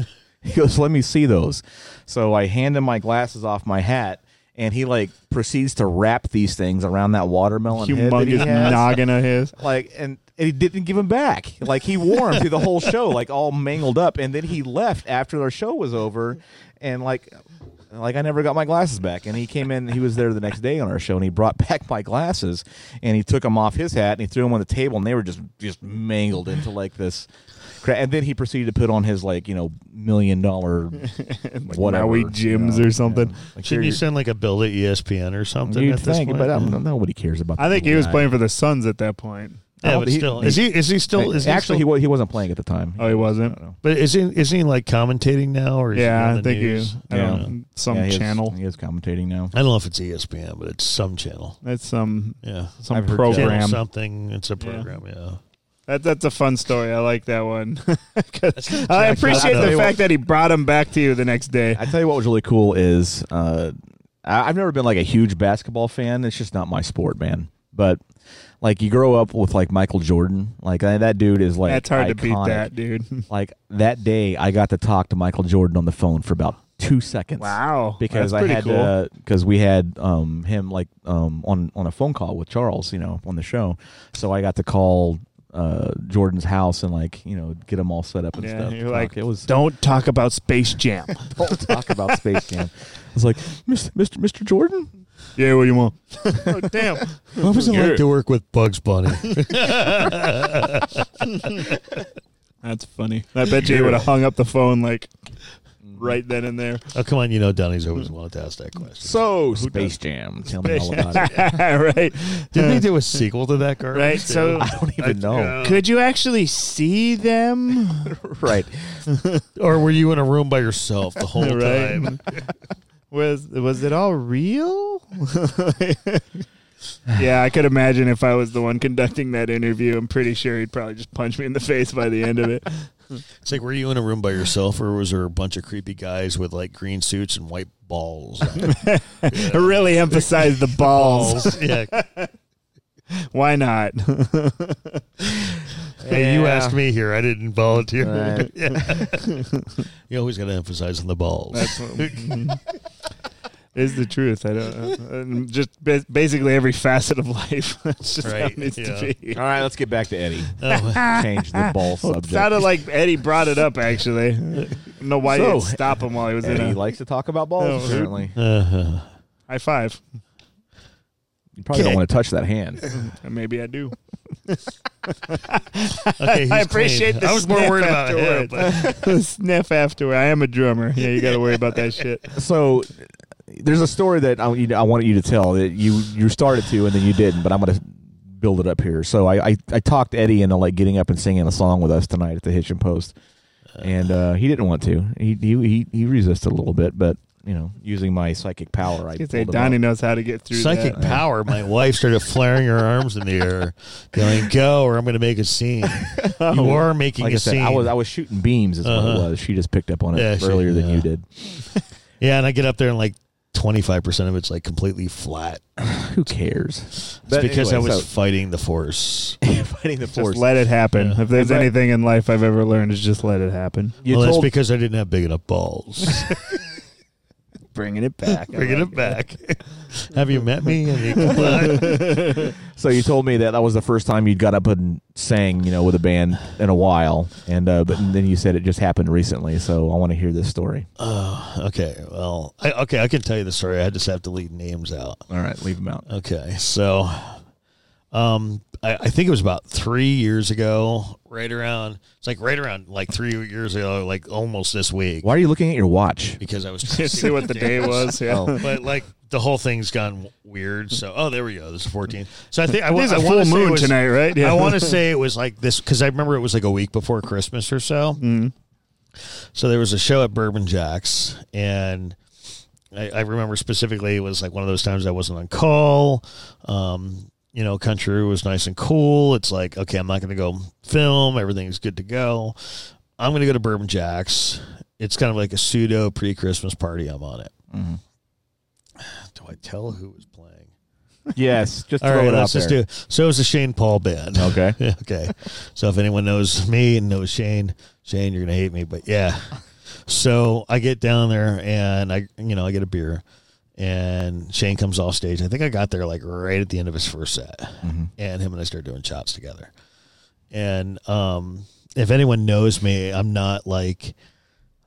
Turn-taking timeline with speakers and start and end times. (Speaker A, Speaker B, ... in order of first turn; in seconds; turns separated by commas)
Speaker A: 0.4-9.0, Speaker B: 7.7-9.5, Speaker C: 8.4-8.8, Speaker A: 9.6-17.4, Speaker A: 17.9-27.3, Speaker A: 27.8-31.1, Speaker B: 31.0-33.4, Speaker A: 31.7-34.0, Speaker C: 33.6-36.8, Speaker A: 35.7-38.3, Speaker B: 37.6-39.7, Speaker A: 39.8-43.8, Speaker C: 39.8-41.9, Speaker B: 43.0-43.5, Speaker C: 43.8-47.5, Speaker B: 45.9-48.5, Speaker A: 47.1-49.5, Speaker C: 49.5-51.6, Speaker B: 51.6-53.8, Speaker C: 52.4-52.8, Speaker A: 52.9-53.6, Speaker C: 53.3-55.4, Speaker B: 54.6-54.9, Speaker B: 55.9-61.9, Speaker C: 58.5-59.9, Speaker A: 59.0-60.0, Speaker A: 61.7-68.0, Speaker A: 68.6-72.7, Speaker B: 71.7-73.2, Speaker A: 73.3-89.5, Speaker B: 77.4-78.9, Speaker B: 88.4-91.7, Speaker A: 91.3-94.9, Speaker B: 95.4-97.5, Speaker A: 96.5-96.8, Speaker A: 97.4-98.0, Speaker C: 97.4-102.0, Speaker B: 99.2-99.5, Speaker B: 102.6-105.1, Speaker C: 103.7-104.0, Speaker A: 105.8-106.1, Speaker B: 106.0-106.8, Speaker C: 106.9-109.2, Speaker A: 109.0-111.4, Speaker B: 109.6-109.9, Speaker B: 110.5-112.8, Speaker C: 112.5-115.8, Speaker B: 113.9-114.7, Speaker A: 114.5-115.6, Speaker B: 115.6-118.1, Speaker A: 118.0-119.0, Speaker B: 119.1-119.4, Speaker C: 119.5-122.4, Speaker B: 121.4-122.2, Speaker B: 123.1-126.4, Speaker B: 127.1-132.9, Speaker C: 133.4-141.9, Speaker B: 138.6-142.3, Speaker B: 143.3-145.5, Speaker C: 146.0-149.5, Speaker A: 146.0-146.8, Speaker A: 148.0-148.5, Speaker B: 148.7-149.6, Speaker C: 150.1-152.5, Speaker B: 151.5-152.6, Speaker B: 153.7-159.4, Speaker C: 158.2-159.1, Speaker A: 159.3-162.7, Speaker C: 160.6-161.1, Speaker B: 160.7-166.8, Speaker A: 165.2-168.3, Speaker B: 167.6-168.1, Speaker C: 168.3-169.1, Speaker B: 169.5-170.0, Speaker A: 171.6-172.8, Speaker B: 172.8-173.9, Speaker B: 174.5-182.3, Speaker C: 176.2-179.1, Speaker A: 182.3-193.1, Speaker A: 193.8-199.8, Speaker B: 199.2-201.1, Speaker C: 200.5-207.9, Speaker A: 200.9-201.2, Speaker A: 206.2-211.2, Speaker B: 206.3-206.8, Speaker C: 208.8-209.3, Speaker C: 210.1-211.1, Speaker C: 212.2-215.6, Speaker A: 215.8-218.1, Speaker C: 217.1-219.4, Speaker A: 219.4-220.5, Speaker B: 220.1-223.9, Speaker C: 220.9-221.2, Speaker A: 221.3-221.7, Speaker A: 224.0-224.5, Speaker C: 224.1-226.4, Speaker B: 227.7-229.2, Speaker C: 228.4-232.1, Speaker B: 231.2-232.5, Speaker A: 232.4-240.9, Speaker C: 241.0-245.2, Speaker A: 245.3-246.1, Speaker C: 246.1-247.4, Speaker C: 248.1-255.3, Speaker A: 255.2-256.4, Speaker C: 256.4-268.2, Speaker B: 256.8-258.8, Speaker A: 258.3-258.6, Speaker B: 262.8-265.0, Speaker B: 268.2-268.5, Speaker C: 269.2-272.2, Speaker C: 272.9-287.5, Speaker A: 287.7-288.0, Speaker C: 289.0-290.7, Speaker A: 291.3-292.8, Speaker C: 292.0-303.2, Speaker A: 294.4-294.8, Speaker C: 303.8-309.7, Speaker A: 307.8-308.1, Speaker C: 310.5-314.1